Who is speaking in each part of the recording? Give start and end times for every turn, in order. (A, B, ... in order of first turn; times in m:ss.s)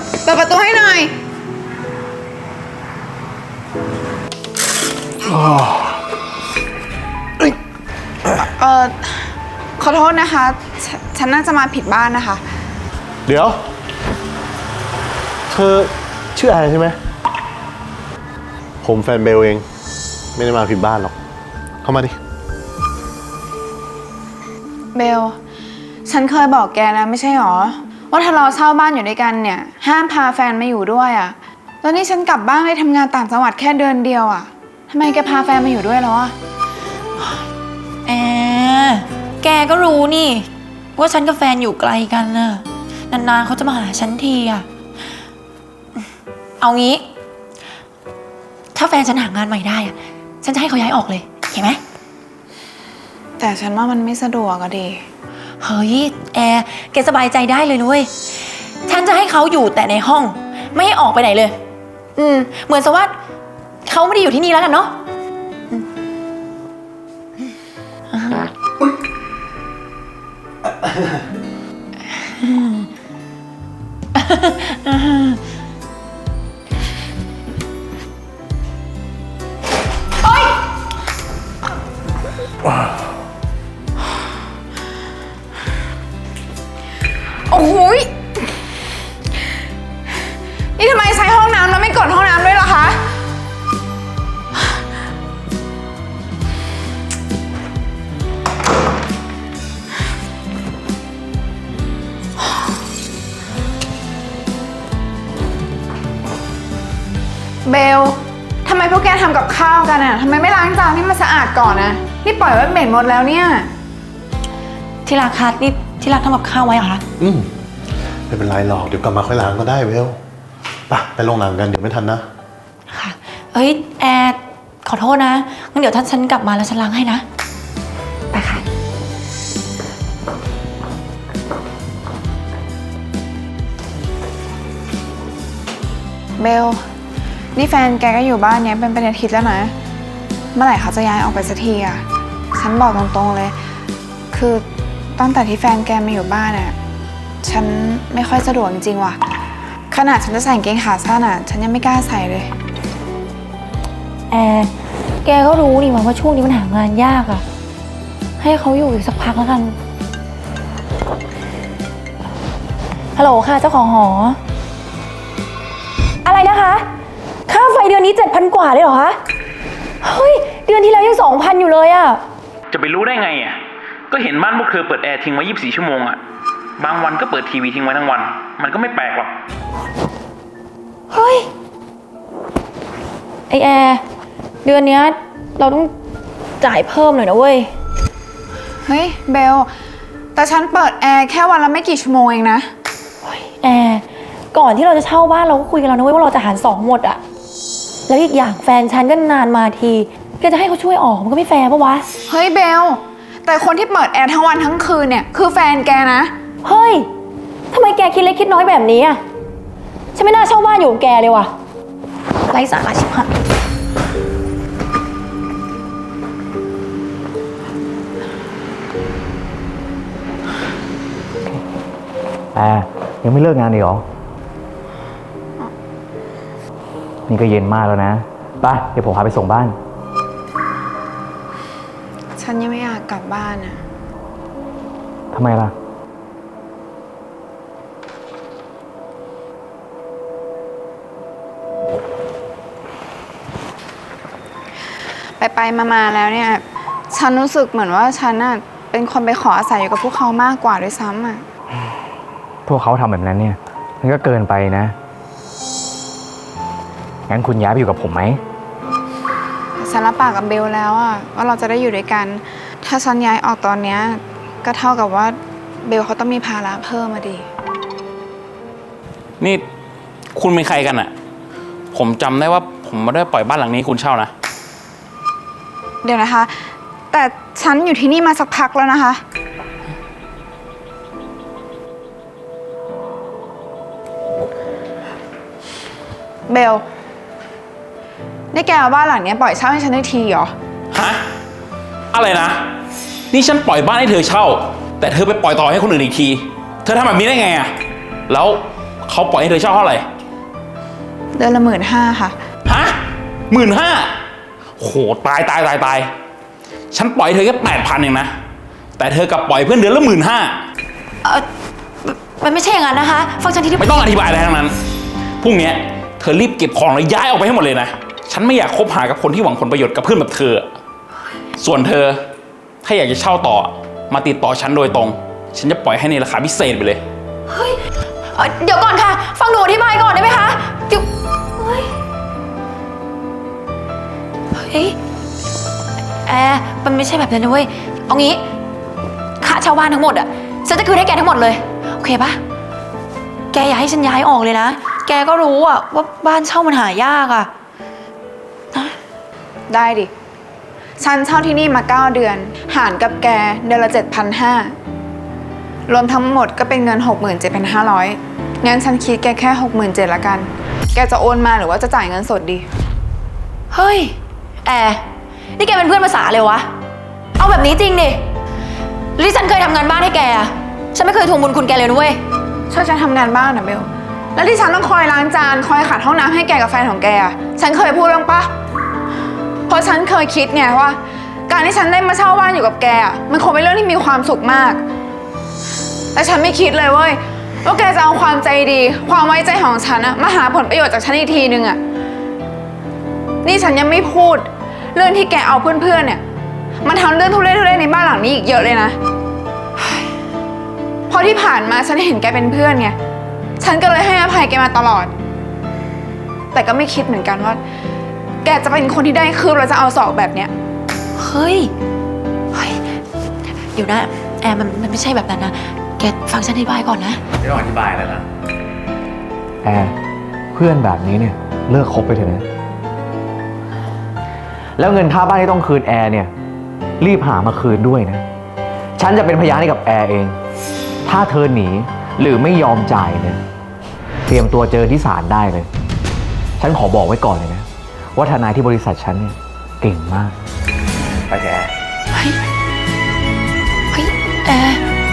0:00.2-0:01.1 A
0:05.3-0:06.0 B
0:08.6-0:12.4 A
0:13.3-0:13.6 B
0:15.5-0:17.0 B
0:18.8-0:19.6 B
0:20.4-0:21.2 B
0:21.8-0:22.2 B
0:24.9-0:25.4 A
0:26.1-0:36.3 A
0:38.1-0:44.7 C
0:46.6-0:47.0 C
0:48.7-0:51.8 C
0:53.4-0:55.0 A
0:55.6-0:58.1 C
0:58.9-1:01.6 C
1:02.2-1:03.1 C
1:03.8-1:04.9 C
1:08.1-1:08.5 C
1:12.4-1:12.9 C
1:14.2-1:15.4 C
1:20.3-1:20.5 C
1:27.5-1:28.1 A
1:30.8-1:33.0 A
1:47.6-1:53.7 A
1:55.1-1:57.0 C
1:57.2-1:57.5 B
1:58.3-2:00.2 B
2:00.9-2:02.2 B
2:02.9-2:07.2 C
2:08.3-2:08.6 C
2:16.4-2:16.8 A
2:17.6-2:19.7 A
2:20.6-2:23.5 A
2:24.3-2:26.8 A
2:27.4-2:29.2 A
2:29.9-2:32.5 A
2:34.3-2:34.7 C
2:35.2-2:37.4 C
2:38.4-2:39.8 C
2:43.2-2:44.4 C
2:46.2-2:46.8 C
2:47.5-2:49.2 C
2:50.0-2:52.2 C
2:52.7-2:56.2 D
2:56.8-2:59.4 D
3:01.1-3:01.5 C
3:03.5-3:04.0 C
3:04.6-3:05.9 C
3:06.6-3:07.7 C
3:08.8-3:09.7 A
3:10.4-3:12.7 A
3:13.2-3:17.2 C
3:18.1-3:22.1 C
3:22.3-3:26.3 A
3:26.6-3:27.1 C
3:27.7-3:29.2 C
3:30.2-3:31.5 C
3:32.5-3:33.3 C
3:42.5-3:44.0 E
3:47.3-3:49.8 E
3:52.4-3:53.8 A
3:55.3-3:55.7 E
4:05.4-4:11.4 A
4:12.7-4:15.0 E
4:17.3-4:18.4 E
4:19.8-4:27.5 A
4:30.4-4:31.1 D
4:31.9-4:34.3 D
4:36.0-4:36.5 A
4:37.1-4:39.2 A
4:46.5-4:46.8 A
4:48.5-4:50.5 A
4:50.9-4:51.2 D
4:52.1-4:52.7 D
4:53.3-4:57.7 D
4:58.3-5:00.0 D
5:01.4-5:02.4 A
5:02.7-5:03.0 D
5:03.5-5:04.1 D
5:04.8-5:06.1 D
5:06.9-5:08.3 D
5:09.0-5:10.6 D
5:12.0-5:14.0 C
5:13.8-5:14.8 D
5:15.4-5:20.7 D
5:21.6-5:22.2 D
5:22.8-5:27.0 D
5:27.5-5:27.8 C
5:28.3-5:31.9 C
5:34.5-5:35.0 C
5:36.3-5:38.4 C
5:39.4-5:42.4 C
5:43.5-5:47.5 C
5:49.7-5:50.1 A
5:51.0-5:54.7 A
5:55.9-6:02.7 A
6:03.7-6:05.0 C
6:05.6-6:06.7 C
6:07.4-6:08.2 C
6:09.2-6:12.2 C
6:12.7-6:18.5 A
6:19.7-6:24.8 A
6:26.2-6:31.8 A
6:33.4-6:36.2 A
6:36.8-6:39.0 A
6:41.1-6:43.0 A
6:43.6-6:45.1 A
6:46.5-6:47.6 A
6:48.4-6:50.5 A
6:51.2-6:51.7 C
6:52.5-6:52.8 C
6:53.7-6:57.2 C
6:57.4-6:58.2 E
6:59.6-7:00.0 E
7:00.5-7:02.4 E
7:04.8-7:06.3 E
7:07.0-7:08.2 E
7:09.0-7:10.4 E
7:11.0-7:13.4 E
7:14.3-7:15.7 E
7:16.6-7:20.4 E
7:21.3-7:21.7 E
7:22.1-7:22.4 C
7:23.9-7:24.8 C